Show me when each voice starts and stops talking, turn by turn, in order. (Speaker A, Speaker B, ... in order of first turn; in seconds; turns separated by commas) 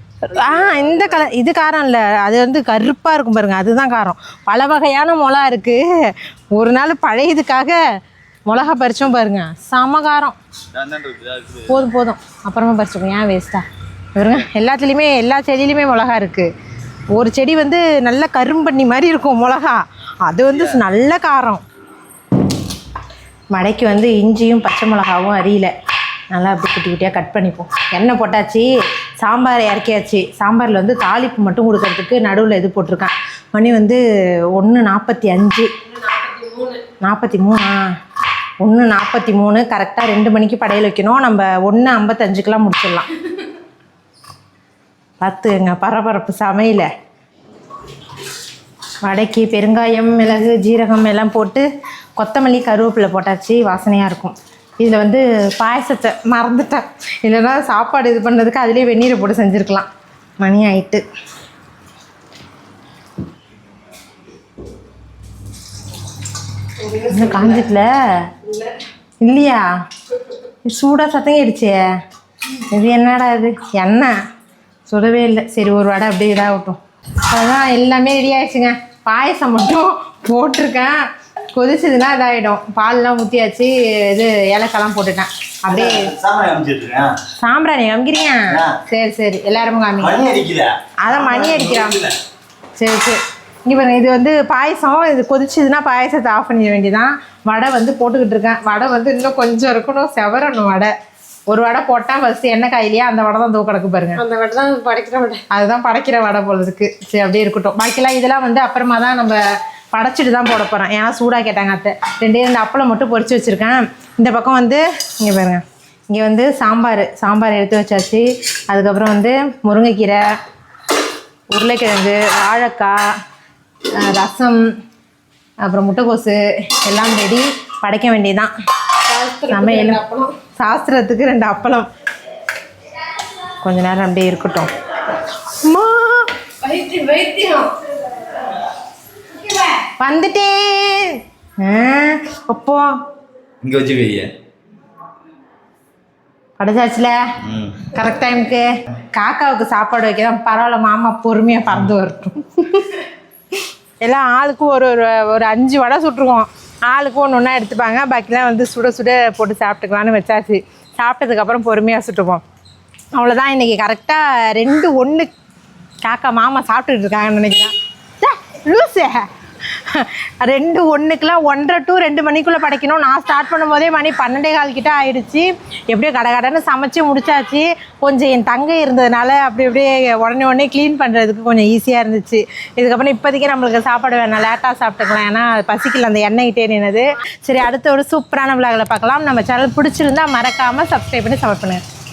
Speaker A: 0.2-7.8, Speaker B: 0.3-1.3, Speaker A: 8.5-10.4, Speaker B: 10.7-11.8, Speaker A: 11.7-16.5, Speaker A: 17.1-21.6, Speaker B: 20.5-20.8, Speaker A: 23.5-25.7, Speaker A: 26.3-28.7, Speaker A: 29.2-34.0, Speaker A: 34.5-35.7, Speaker C: 36.1-36.8, Speaker A: 36.9-37.8, Speaker A: 38.6-43.1, Speaker A: 45.2-46.9, Speaker A: 49.0-51.6, Speaker A: 52.2-59.9, Speaker A: 60.4-61.0, Speaker C: 66.8-67.5, Speaker A: 66.9-68.3, Speaker C: 68.5-68.7, Speaker A: 69.2-69.6, Speaker A: 70.6-71.8, Speaker A: 72.7-74.1, Speaker A: 74.9-76.8, Speaker A: 77.3-81.0, Speaker A: 81.5-86.1, Speaker B: 85.7-87.1, Speaker A: 87.4-90.2, Speaker B: 88.5-88.8, Speaker B: 90.0-92.2, Speaker A: 91.0-92.0, Speaker A: 92.8-100.9, Speaker A: 101.5-104.2, Speaker C: 104.2-105.4, Speaker A: 105.4-109.4, Speaker A: 109.9-120.2, Speaker A: 121.5-123.0, Speaker A: 124.0-124.6, Speaker A: 125.6-128.5, Speaker C: 129.1-130.3, Speaker A: 129.5-131.9, Speaker A: 133.6-134.7, Speaker A: 135.4-136.3, Speaker C: 136.6-137.8, Speaker C: 139.4-139.8, Speaker A: 139.9-142.8, Speaker B: 143.6-144.3, Speaker A: 146.6-147.2, Speaker B: 147.4-147.9, Speaker A: 147.9-153.0, Speaker A: 154.0-162.4, Speaker A: 163.1-165.3, Speaker A: 166.0-191.8